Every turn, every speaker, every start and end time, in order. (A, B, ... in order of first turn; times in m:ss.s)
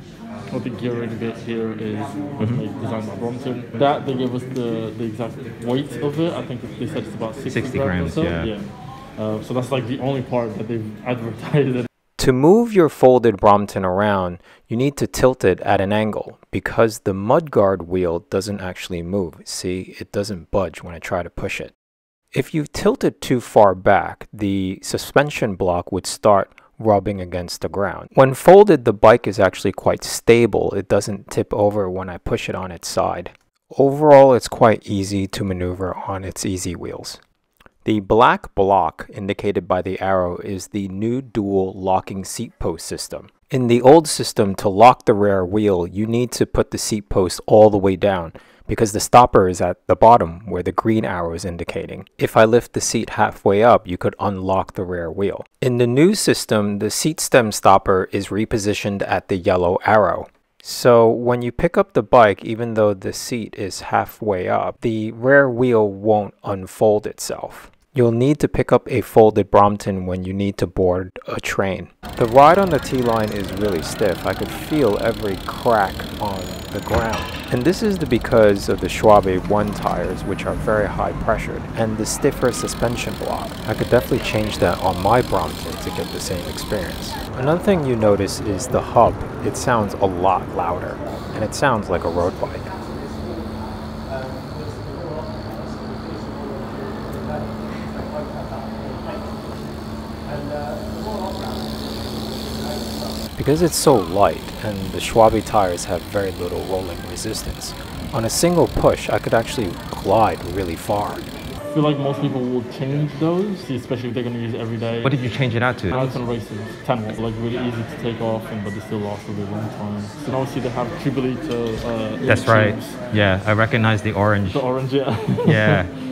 0:00.5-0:11.9 A
0:07.4-0:08.5 B
0:12.2-0:21.7 C
0:22.3-0:37.2 C
0:37.8-1:32.7 C
1:43.4-1:51.2 C
1:51.7-1:55.4 A
1:55.0-1:56.1 B
1:55.9-2:03.0 A
2:02.3-2:04.6 B
2:04.5-2:05.9 A
2:05.4-2:05.9 B